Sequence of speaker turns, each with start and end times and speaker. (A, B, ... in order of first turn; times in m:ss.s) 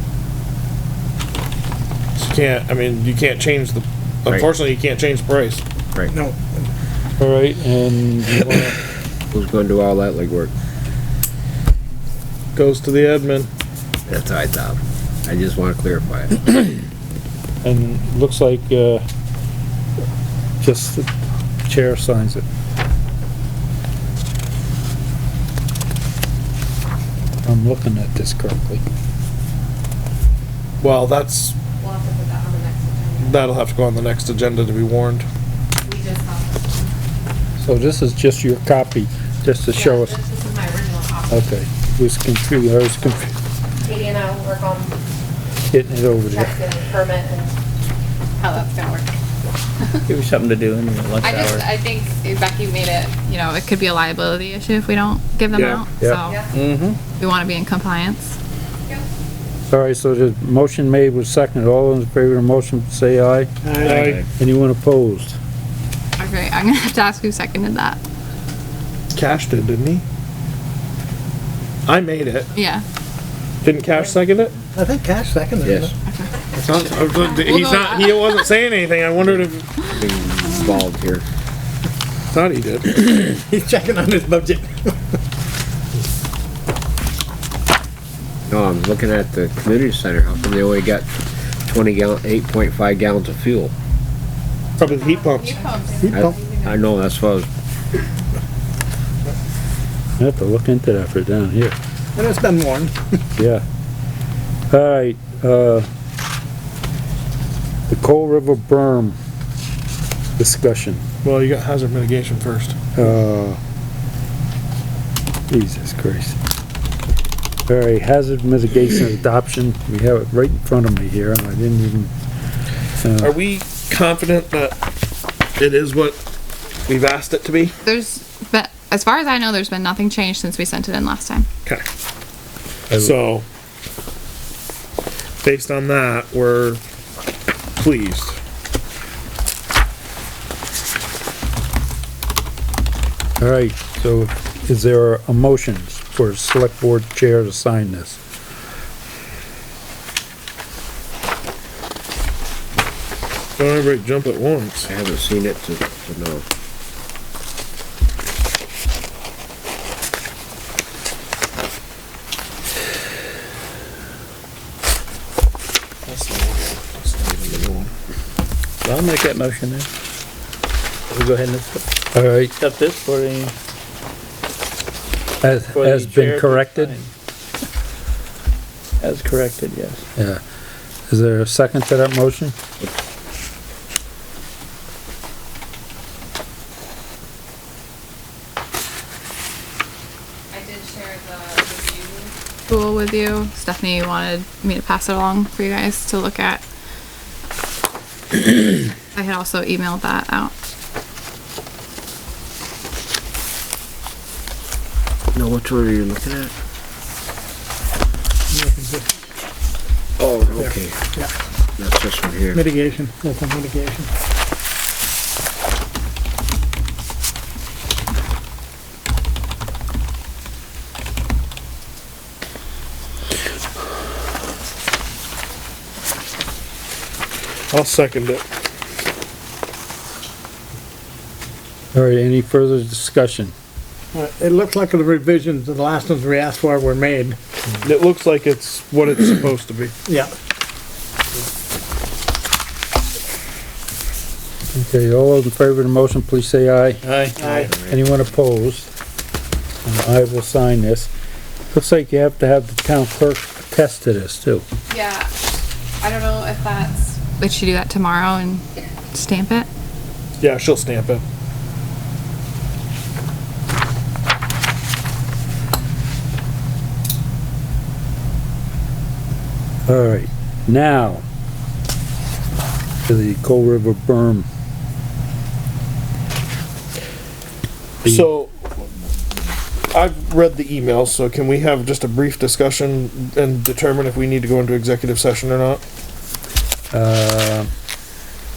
0:02.2-0:05.6 A
0:06.1-0:06.7 B
0:07.2-0:08.8 C
0:09.3-0:10.5 D
0:12.5-0:13.5 A
0:14.1-0:16.7 D
0:17.6-0:19.0 C
0:20.6-0:21.1 C
0:21.6-0:22.4 C
0:27.4-0:28.8 C
0:30.8-0:31.6 A
0:31.8-0:33.5 E
0:33.2-0:35.3 A
0:35.8-0:36.9 E
0:37.6-0:40.2 C
0:39.7-0:41.5 E
0:41.3-0:43.3 C
0:43.8-0:44.9 E
0:45.7-0:46.6 C
0:46.3-0:47.6 E
0:48.4-0:49.1 F
0:50.1-0:51.7 G
0:51.2-0:56.3 F
0:55.5-0:55.8 A
0:56.2-0:56.5 E
0:56.6-0:57.0 B
0:57.2-0:58.4 F
0:59.7-1:03.5 C
1:03.6-1:04.0 B
1:03.8-1:04.2 D
1:03.8-1:04.2 A
1:04.3-1:05.4 C
1:06.2-1:08.0 F
1:09.1-1:10.0 A
1:11.8-1:12.5 A
1:12.6-1:12.8 F
1:13.6-1:14.6 A
1:14.7-1:15.9 B
1:15.6-1:15.9 D
1:16.1-1:16.3 F
1:16.4-1:19.9 A
1:17.2-1:18.5 F
1:19.9-1:21.2 D
1:22.3-1:23.0 A
1:23.0-1:25.0 B
1:28.5-1:31.1 D
1:31.6-1:33.7 D
1:34.8-1:35.6 A
1:34.8-1:36.9 E
1:35.6-1:35.9 F
1:36.0-1:36.3 B
1:36.1-1:37.5 D
1:40.2-1:41.7 C
1:42.2-1:43.2 B
1:43.4-1:43.6 C
1:44.7-1:45.8 C
1:47.9-1:49.2 C
1:50.4-1:51.0 C
1:51.2-1:52.8 A
1:52.9-1:53.6 C
1:55.5-1:56.4 C
1:57.7-2:02.1 C
2:03.0-2:03.3 C
2:03.2-2:04.8 A
2:05.6-2:06.2 A
2:06.8-2:07.8 A
2:07.8-2:11.5 F
2:13.0-2:13.4 A
2:15.4-2:16.8 A
2:17.8-2:18.4 A
2:23.4-2:28.2 C
2:33.6-2:34.9 A
2:34.8-2:36.4 D
2:46.0-2:47.9 A
2:48.8-2:49.9 G
2:51.1-2:51.8 G
2:52.1-2:52.5 C
2:52.4-2:53.5 G
2:55.4-2:57.0 C
2:55.7-2:57.1 G
2:59.0-3:00.0 G
3:00.2-3:00.4 C
3:01.1-3:02.5 C
3:10.5-3:16.6 F
3:19.1-3:20.5 F
3:25.3-3:26.5 D
3:28.5-3:29.1 B
3:30.2-3:31.0 D
3:30.6-3:31.3 B
3:31.8-3:32.6 D
3:32.5-3:34.1 B
3:47.7-3:48.4 A
3:51.9-3:53.5 C
3:54.1-3:57.4 B
3:57.8-3:59.9 A
4:00.1-4:00.3 B
4:04.7-4:07.0 C
4:07.0-4:07.7 G
4:07.4-4:08.3 D
4:07.4-4:07.7 B
4:07.8-4:08.9 C
4:09.8-4:11.1 C
4:11.7-4:14.6 C
4:14.9-4:15.3 F
4:16.0-4:19.7 F
4:20.4-4:21.2 A
4:29.9-4:31.2 C
4:33.1-4:34.5 C
4:38.0-4:39.0 A
4:39.9-4:45.8 A
4:46.9-4:47.7 C